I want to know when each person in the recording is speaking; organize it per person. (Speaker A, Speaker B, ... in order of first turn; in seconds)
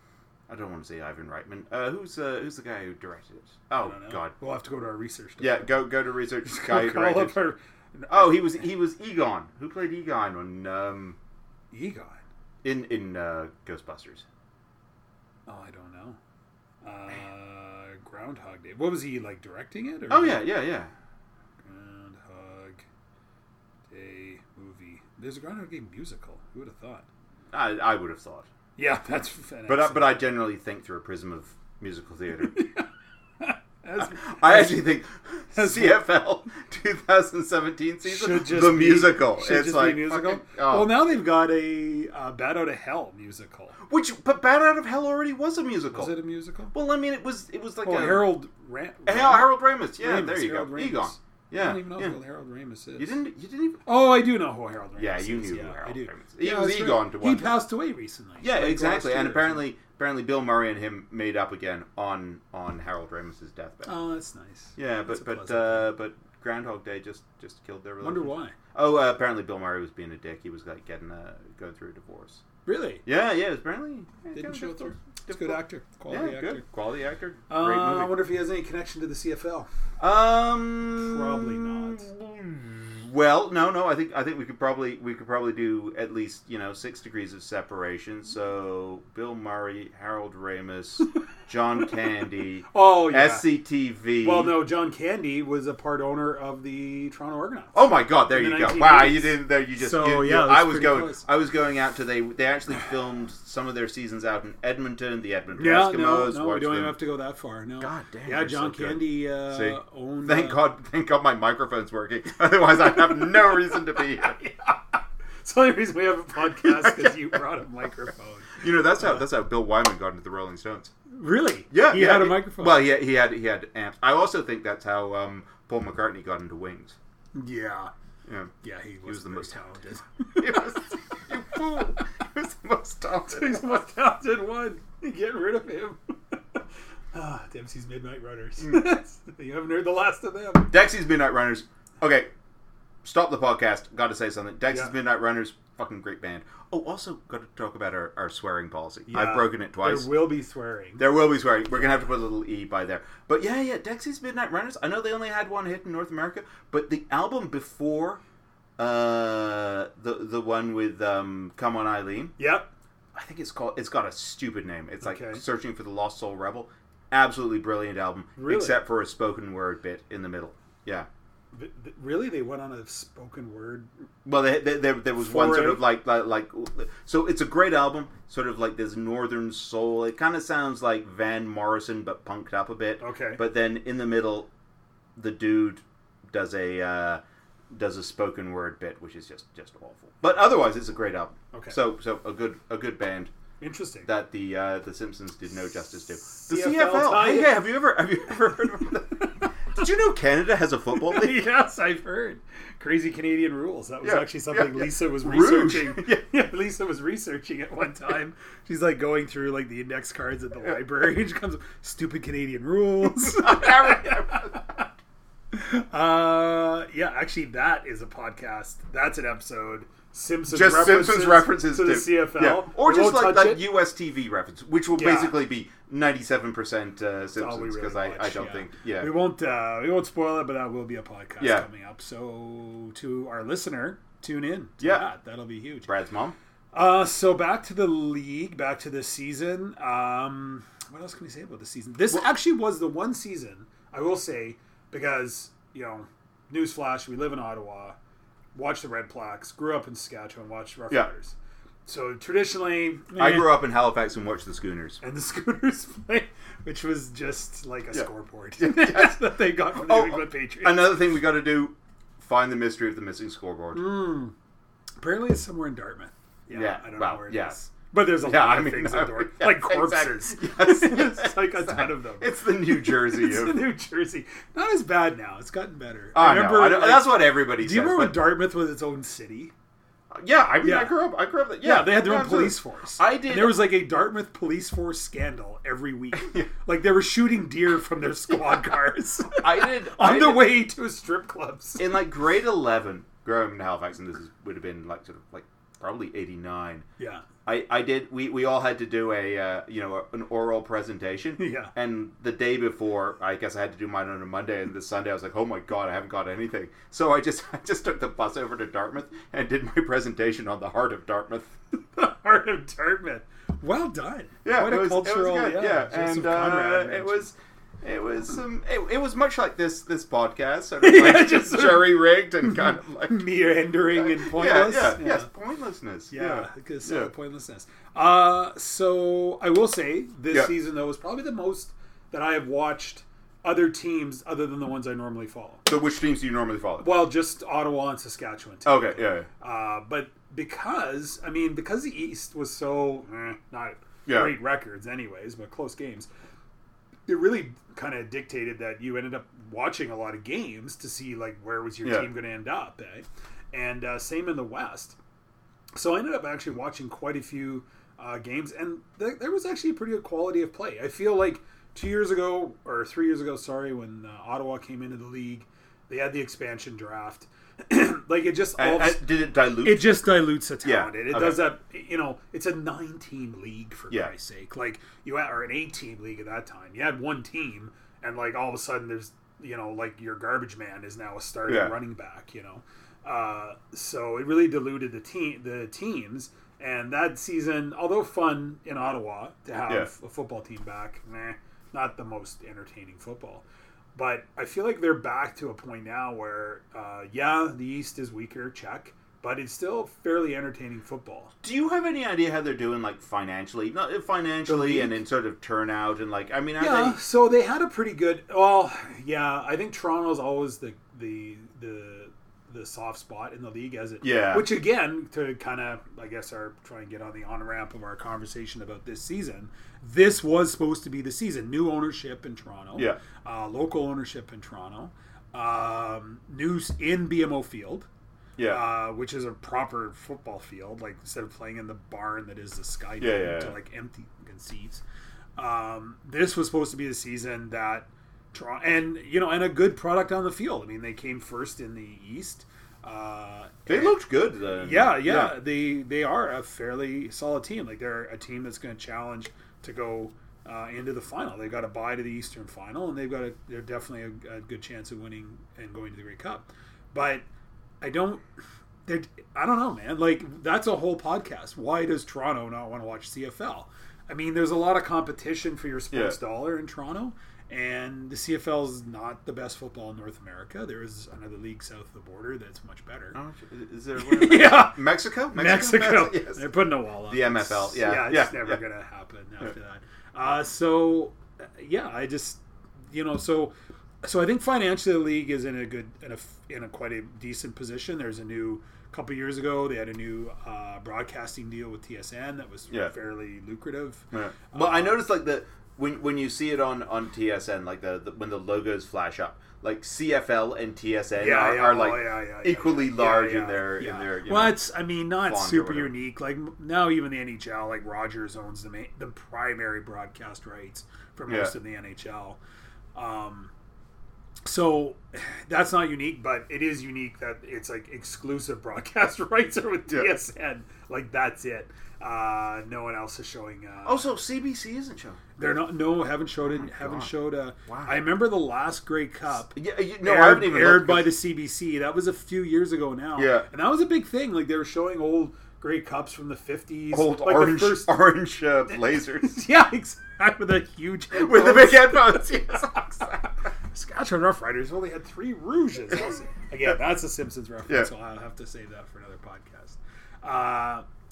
Speaker A: 0.5-4.3, 5.4-7.4, 8.1-11.2, 12.6-14.2, 20.1-20.9, 27.5-28.5, 29.7-32.6, 34.0-41.0, 43.8-46.1, 46.7-48.3, 49.1-52.2, 53.0-53.8, 55.0-57.5, 58.4-63.9, 64.8-72.4, 73.0-78.1, 80.0-94.6, 97.7-107.0, 107.8-114.4, 116.6-117.3, 118.6-120.9, 121.7-127.0, 128.3-128.5, 129.1-129.6, 130.4-133.7, 140.7-142.3, 143.0-150.1, 151.0-158.2, 158.8-162.3, 163.1-171.1, 174.2-184.5, 185.2-187.2, 187.7-193.3, 194.1-201.5, 204.0-206.2, 213.0-214.6, 220.5-229.1, 231.4-231.7, 234.8-235.1, 235.8-236.3, 253.2-255.0, 258.6-264.0, 266.5-267.6, 268.2-273.6, 276.1-278.3, 280.1-283.7, 286.2-286.5, 289.4-290.5, 291.8-296.9, 297.4-311.5, 314.4-323.3, 323.9-327.1, 335.7-336.9, 338.6-339.3, 344.1-344.4, 351.8-352.1, 368.6-370.1, 370.6-371.5, 381.5-381.8, 401.4-407.0, 414.0-414.5, 428.4-428.7, 433.0-433.6, 443.7-445.4, 465.9-466.2, 473.1-476.5, 477.1-478.6, 494.1-504.6, 505.2-505.9, 511.3-511.5, 523.9-525.3, 526.4-527.1, 527.7-528.0, 529.5-531.2, 533.2-533.5, 536.9-539.4, 541.1-543.3
Speaker B: 3.8-5.7, 6.4-8.6, 11.7-12.2, 15.5-16.2, 16.8-20.5, 21.6-22.8, 23.9-27.1, 28.8-30.2, 32.5-32.9, 33.4-35.0, 35.5-36.0, 38.0-43.8, 45.9-46.7, 47.8-53.2, 53.9-59.6, 63.9-65.9, 68.0-68.6, 72.7-73.0, 74.3-76.6, 77.5-79.7, 81.0-82.1, 92.7-93.5, 94.2-97.8, 98.3-101.2, 105.6-110.6, 114.2-114.7, 115.4-119.2, 121.1-122.8, 127.3-127.9, 128.6-130.7, 133.3-136.6, 137.1-140.7, 149.1-151.1, 162.4-162.7, 165.0-165.4, 168.4-168.8, 171.5-173.9, 175.2-175.9, 183.0-183.4, 191.5-191.8, 193.6-194.1, 196.3-197.6, 200.9-214.9, 215.5-223.7, 224.9-225.4, 227.4-235.9, 236.7-248.0, 248.5-251.3, 251.9-253.7, 255.0-260.9, 263.7-264.3, 265.0-279.5, 280.6-281.0, 281.6-291.9, 301.4-301.7, 311.9-317.3, 320.8-325.3, 326.1-335.7, 336.8-346.1, 347.1-355.0, 355.8-369.1, 369.6-401.3, 404.5-405.0, 406.6-427.9, 428.5-434.8, 435.4-443.9, 444.5-457.3, 457.8-458.2, 458.9-473.2, 474.0-474.8, 475.3-495.0, 501.2-512.4, 513.0-513.5, 514.5-524.1, 525.4-538.0, 538.7-542.8, 543.7-550.9